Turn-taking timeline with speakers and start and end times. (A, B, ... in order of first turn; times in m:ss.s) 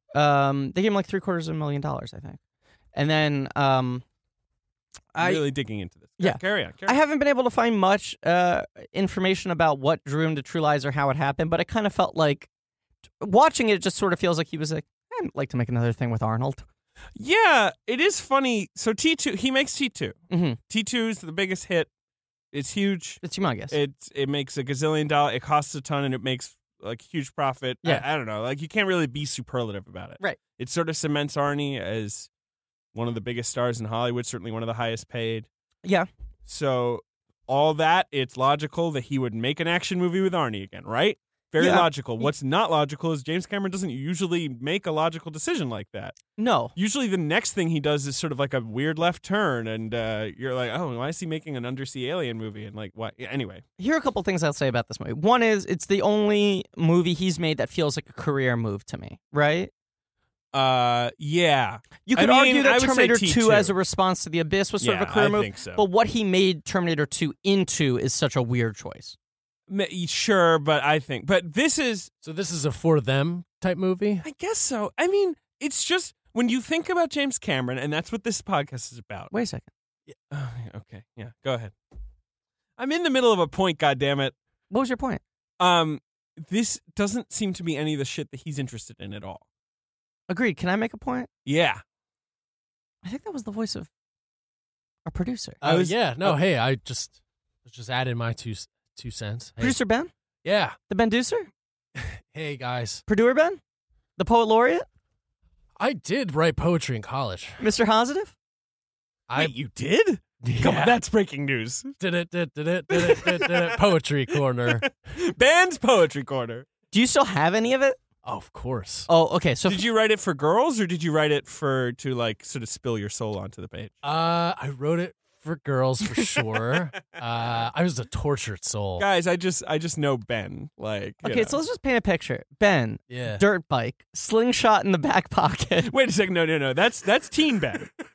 0:00.1-0:02.4 A
0:03.0-0:04.0 A
0:05.2-0:05.5 A
0:05.2-0:07.0 B
0:06.2-0:12.5 A
0:13.2-0:16.6 A
0:17.2-0:20.2 B
0:20.3-0:20.6 A
0:20.7-0:21.9 B
0:22.5-0:32.3 B
0:23.2-0:23.8 A
0:32.9-0:35.5 B
0:36.5-0:46.2 B
0:41.6-0:42.3 A
0:46.4-0:46.7 A
0:46.8-0:53.6 B
0:53.8-0:59.7 A
1:00.5-1:03.8 B
1:02.1-1:09.2 A
1:04.8-1:05.8 B
1:09.7-1:12.1 B
1:12.2-1:14.3 C
1:14.2-1:19.3 B
1:19.3-1:19.7 A
1:20.3-1:21.7 B
1:22.8-1:24.4 B
1:24.7-1:25.2 A
1:25.6-1:29.4 B
1:30.3-1:31.3 A
1:31.5-1:31.8 B
1:33.0-1:33.9 A
1:35.1-1:35.9 A
1:35.6-1:39.8 C
1:35.7-1:35.9 B
1:39.6-1:40.1 A
1:40.4-1:40.8 C
1:40.9-1:41.5 A
1:42.0-1:43.0 C
1:43.1-1:43.6 A
1:44.2-1:44.8 A
1:45.8-1:47.6 C
1:47.6-1:48.3 A
1:49.3-1:49.6 C
1:49.4-1:52.0 B
1:50.4-1:51.0 C
1:52.0-1:54.9 C
1:52.9-1:53.8 B
1:54.7-1:56.7 B
1:56.9-1:58.0 A
1:58.2-1:59.1 C
1:59.1-1:59.8 A
1:59.7-2:04.0 B
2:04.0-2:09.1 C
2:09.0-2:11.6 B
2:11.2-2:15.9 A
2:13.1-2:13.4 C
2:15.8-2:17.9 B